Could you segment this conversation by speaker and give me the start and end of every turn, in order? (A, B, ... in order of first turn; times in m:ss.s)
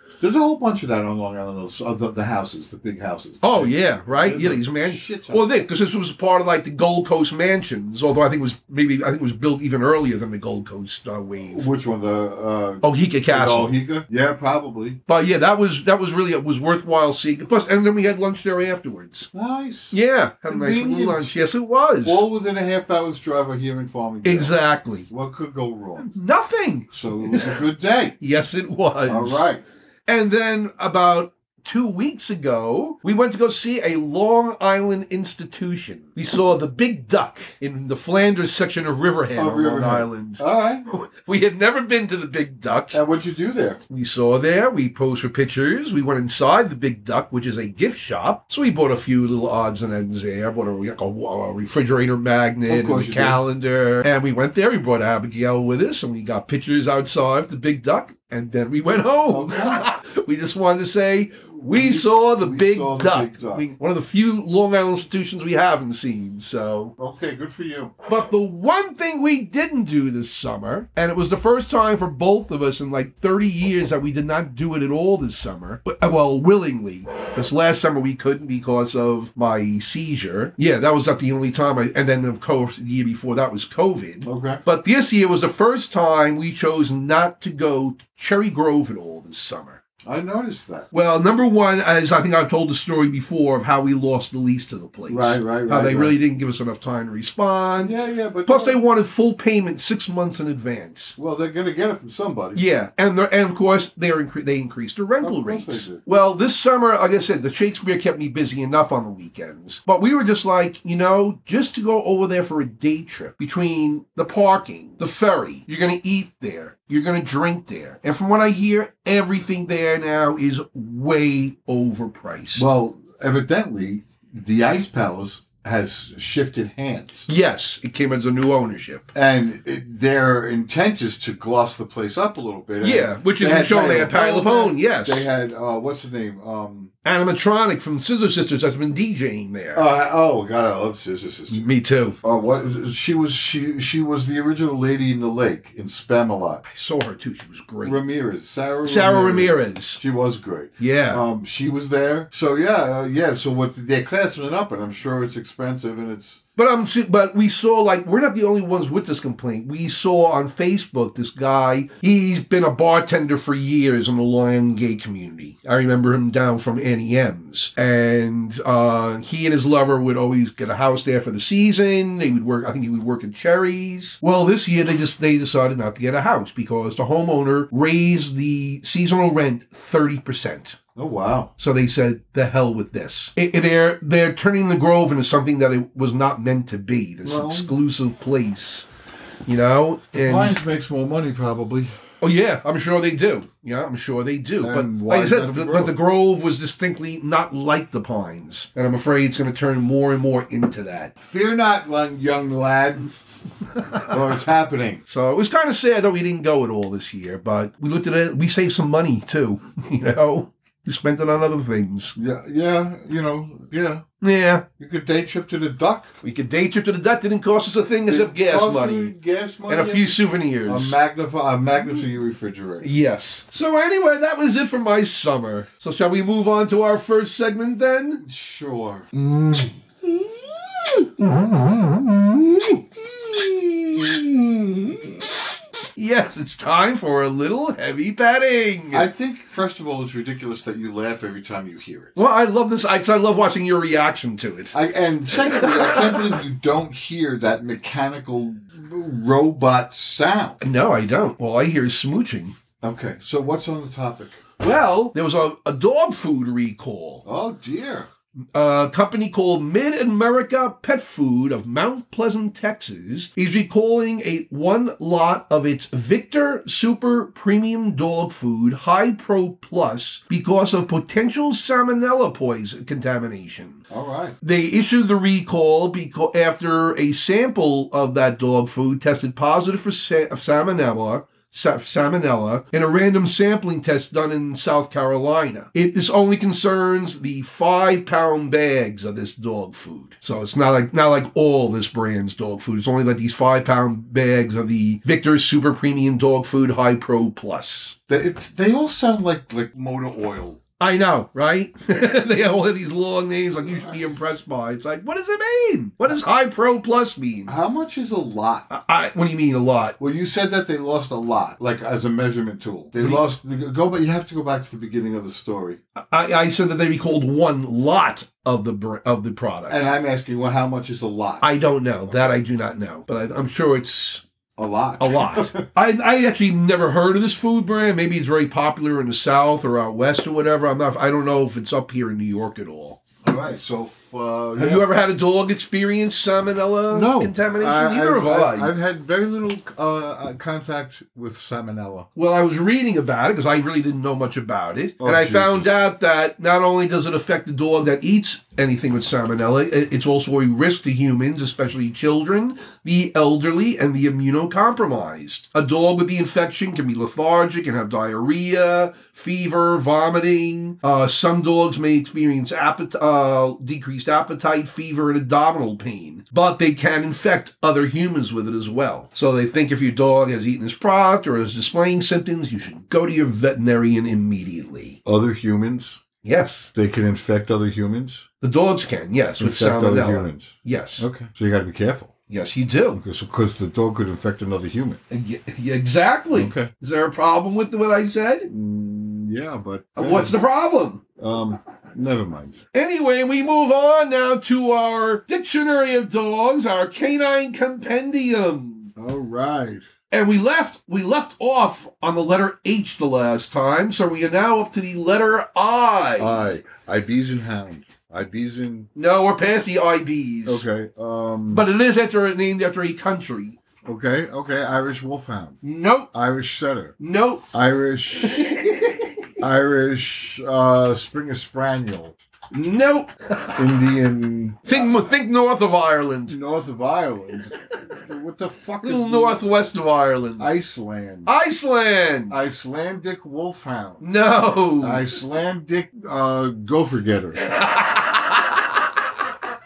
0:00.2-0:05.5 A
0:03.4-0:11.7 B
0:11.4-0:15.0 A
0:12.8-0:13.8 B
0:15.1-0:19.3 B
0:19.3-0:21.4 A
0:19.9-0:22.2 B
0:22.0-0:26.1 A
0:24.2-0:25.1 B
0:26.0-0:27.6 B
0:26.9-0:28.2 A
0:28.2-0:29.4 B
0:29.1-0:29.6 A
0:30.1-0:43.0 B
0:39.3-0:40.9 A
0:42.9-0:43.8 A
0:43.9-1:06.9 B
0:52.7-0:53.4 A
0:59.3-0:59.9 A
1:01.6-1:03.7 A
1:07.0-1:07.9 A
1:08.1-1:29.8 B
1:24.2-1:24.6 A
1:30.0-1:30.9 A
1:30.9-1:37.9 B
1:35.1-1:36.2 A
1:37.8-1:38.8 A
1:38.5-1:41.2 B
1:41.2-1:42.6 A
1:42.6-2:02.7 B
1:45.2-1:46.0 A
2:02.6-2:07.3 A
2:07.3-2:09.1 B
2:09.1-2:16.9 A
2:12.8-2:15.3 B
2:17.0-2:19.8 B
2:19.8-2:21.7 A
2:21.5-2:22.2 B
2:22.2-2:26.6 A
2:26.7-2:28.0 B
2:27.8-2:36.4 A
2:28.8-2:30.0 B
2:30.8-2:31.2 B
2:36.6-3:00.8 B
3:01.0-3:01.5 A
3:01.6-3:08.9 B
3:07.2-3:07.7 A
3:09.5-3:10.6 B
3:10.2-3:11.9 A
3:12.2-3:21.1 B
3:14.6-3:16.0 A
3:21.2-3:23.1 A
3:24.1-3:25.0 A
3:25.1-3:32.2 B
3:32.2-3:34.0 A
3:34.2-3:34.6 B
3:34.8-3:36.1 A
3:36.2-3:39.2 B
3:38.1-3:42.9 A
3:39.7-3:41.0 B
3:42.8-3:48.2 B
3:48.2-3:49.7 A
3:51.2-3:52.3 A
3:53.3-3:54.1 B
3:56.0-3:59.1 B
3:58.9-4:02.2 A
4:02.2-4:04.8 B
4:04.7-4:10.6 A
4:05.3-4:06.4 B
4:10.6-4:12.6 B
4:12.8-4:14.4 A
4:14.6-4:17.2 B
4:17.2-4:18.1 A
4:18.5-4:33.8 B
4:33.9-4:34.4 A
4:34.4-4:58.0 B
4:58.1-5:00.6 A
5:00.8-5:07.5 B
5:03.6-5:04.2 A
5:07.5-5:08.7 A
5:08.7-5:10.0 B
5:10.0-5:15.8 A
5:13.0-5:13.3 B
5:16.1-5:19.9 B
5:19.7-5:22.4 A
5:21.4-5:24.2 B
5:24.6-5:25.7 A
5:25.0-5:33.0 B
5:33.2-5:34.9 A
5:34.6-5:38.7 B
5:36.9-5:42.1 A
5:42.2-6:15.0 B
5:45.0-5:45.8 A
6:15.0-6:16.0 A
6:16.2-6:16.7 B
6:16.7-6:18.3 A
6:18.4-6:21.1 B
6:19.4-6:22.1 A
6:22.3-6:23.0 B
6:22.9-6:25.0 A
6:25.1-6:28.5 B
6:26.3-6:26.7 A
6:28.5-6:30.4 A
6:30.0-6:31.0 B
6:31.2-6:32.6 A
6:32.7-6:38.9 B
6:39.0-6:39.9 A
6:40.1-6:46.4 B
6:46.2-6:48.9 A
6:49.0-6:50.6 B
6:50.4-6:51.7 A
6:51.5-6:53.6 B
6:53.8-6:55.6 A
6:55.6-6:56.1 B
6:56.1-6:57.0 A
6:57.0-6:57.4 B
6:57.5-6:58.5 A
6:58.2-6:59.0 B
6:59.4-7:02.2 A
7:02.5-7:03.6 B
7:03.6-7:05.1 A
7:04.7-7:06.4 B
7:06.3-7:09.4 A
7:08.8-7:10.5 B
7:10.4-7:11.3 A
7:11.3-7:12.4 B
7:12.3-7:14.1 A
7:14.0-7:15.1 B
7:14.8-7:17.4 A
7:17.5-7:18.8 B